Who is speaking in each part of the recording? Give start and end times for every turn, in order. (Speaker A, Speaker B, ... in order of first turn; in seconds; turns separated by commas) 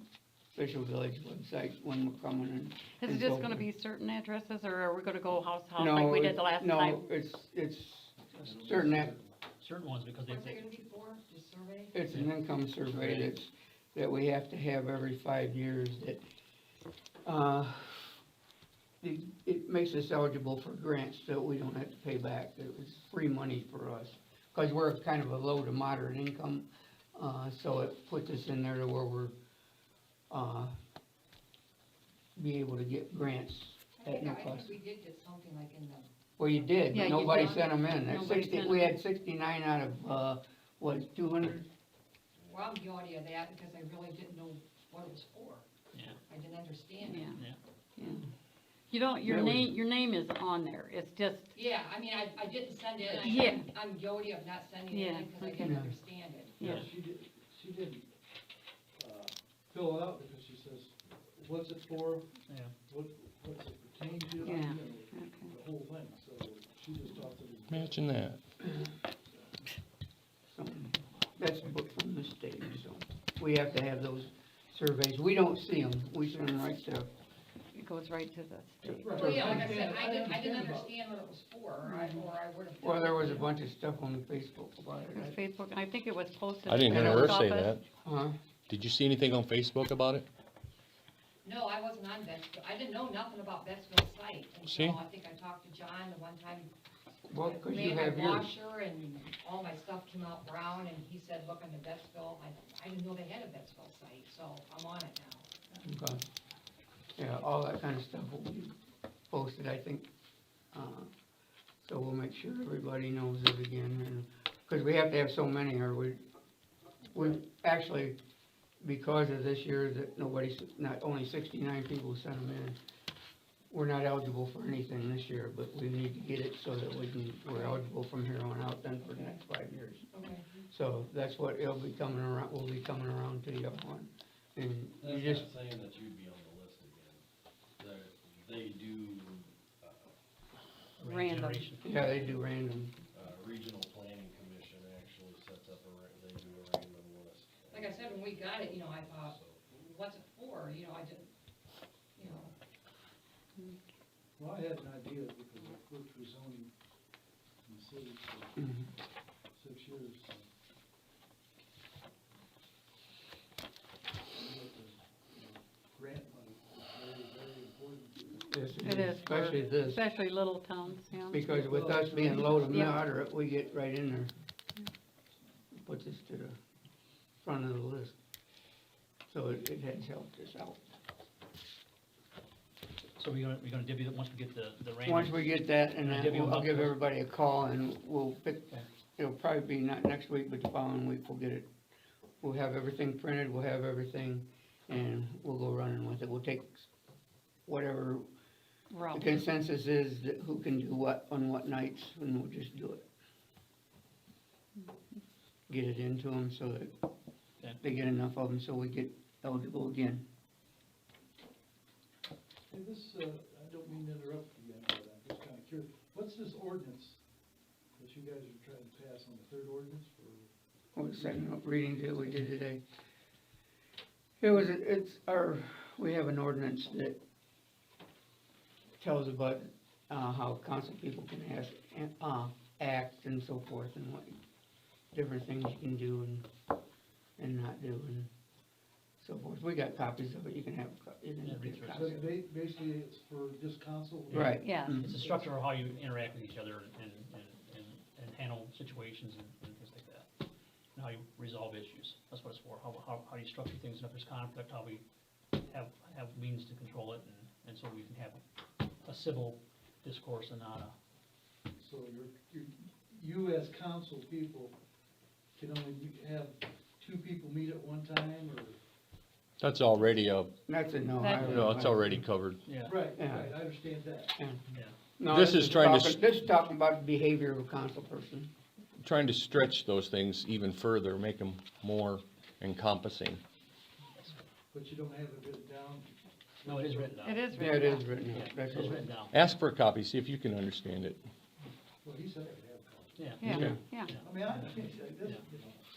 Speaker A: 0.5-3.7, Speaker B: 3.0-7.0, Speaker A: 5.8-9.1, Speaker C: 8.3-8.8, Speaker D: 8.4-9.3, Speaker C: 9.6-10.6, Speaker E: 10.3-11.9, Speaker A: 11.9-16.2, Speaker C: 12.1-13.3, Speaker A: 17.2-18.1, Speaker A: 19.0-29.3, Speaker A: 30.3-30.7, Speaker A: 32.4-34.7, Speaker E: 34.0-36.1, Speaker A: 36.4-41.7, Speaker B: 36.9-38.9, Speaker E: 37.0-37.5, Speaker F: 42.4-42.7, Speaker E: 42.5-45.7, Speaker C: 45.9-46.2, Speaker E: 46.2-47.4, Speaker B: 47.0-47.3, Speaker A: 48.0-48.2, Speaker B: 48.9-51.5, Speaker A: 49.2-49.7, Speaker E: 51.5-56.7, Speaker B: 53.1-53.7, Speaker B: 54.9-55.8, Speaker A: 55.6-55.9, Speaker C: 56.6-56.9, Speaker D: 56.6-58.0, Speaker D: 59.0-68.0, Speaker C: 62.5-62.7, Speaker B: 64.4-65.5, Speaker G: 67.7-68.4, Speaker A: 70.5-77.1, Speaker B: 77.7-79.1, Speaker A: 78.8-79.7, Speaker D: 79.0-80.9, Speaker E: 79.1-83.5, Speaker B: 81.9-82.2, Speaker A: 82.8-85.4, Speaker B: 85.1-87.7, Speaker G: 86.7-87.8, Speaker A: 86.9-87.4, Speaker A: 88.0-88.3, Speaker G: 88.7-90.2, Speaker E: 91.4-96.7, Speaker G: 94.7-95.0, Speaker A: 97.3-98.5, Speaker E: 97.3-105.8, Speaker A: 105.8-106.2, Speaker A: 107.2-108.7, Speaker A: 109.3-110.1, Speaker A: 110.7-111.1, Speaker A: 111.8-116.2, Speaker A: 117.1-118.2, Speaker A: 118.8-122.8, Speaker A: 123.7-130.1, Speaker E: 127.5-127.8, Speaker E: 130.1-130.5, Speaker A: 130.7-135.5, Speaker F: 135.0-137.2, Speaker F: 137.8-140.1, Speaker C: 141.0-142.4, Speaker B: 141.0-141.6, Speaker A: 141.8-142.9, Speaker F: 143.1-149.6, Speaker E: 147.7-151.3, Speaker E: 152.2-152.5, Speaker D: 154.4-156.7, Speaker D: 157.6-158.7, Speaker A: 158.6-158.9, Speaker D: 159.5-160.4, Speaker D: 164.3-169.7, Speaker A: 168.4-170.0, Speaker B: 168.8-171.4, Speaker A: 171.3-174.3, Speaker D: 171.4-173.7, Speaker B: 172.7-173.0, Speaker A: 175.8-176.6, Speaker A: 177.4-178.2, Speaker A: 179.3-180.8, Speaker C: 183.2-187.0, Speaker A: 185.0-191.7, Speaker A: 192.4-196.9, Speaker A: 197.7-198.2, Speaker B: 198.9-199.2, Speaker A: 199.1-203.1, Speaker A: 205.7-206.9, Speaker A: 207.8-210.2, Speaker D: 212.7-217.2, Speaker D: 218.0-220.5, Speaker A: 220.9-222.8, Speaker D: 221.1-221.5, Speaker A: 224.4-227.2, Speaker A: 229.0-234.4, Speaker A: 235.1-236.5, Speaker A: 237.4-238.3, Speaker A: 239.2-242.3, Speaker C: 241.4-242.1, Speaker D: 241.9-245.5, Speaker A: 244.3-245.2, Speaker C: 244.3-250.3, Speaker B: 244.6-245.0, Speaker C: 250.9-255.0, Speaker C: 255.6-258.4, Speaker C: 259.0-260.9, Speaker D: 261.8-264.8, Speaker D: 265.6-268.8, Speaker G: 269.6-270.5, Speaker A: 270.7-272.2, Speaker B: 271.2-271.6, Speaker G: 271.4-272.6, Speaker C: 272.6-273.0, Speaker D: 272.8-274.3, Speaker A: 273.1-273.5, Speaker A: 275.2-278.5, Speaker G: 275.3-276.2, Speaker G: 279.0-283.4, Speaker C: 284.1-284.4, Speaker D: 284.7-287.6, Speaker C: 286.6-289.3, Speaker B: 287.2-288.1, Speaker A: 287.5-289.1, Speaker G: 289.3-291.2, Speaker D: 292.0-295.9, Speaker C: 293.1-293.5, Speaker B: 293.4-294.1, Speaker G: 293.4-293.8, Speaker A: 293.5-293.8, Speaker C: 294.0-295.4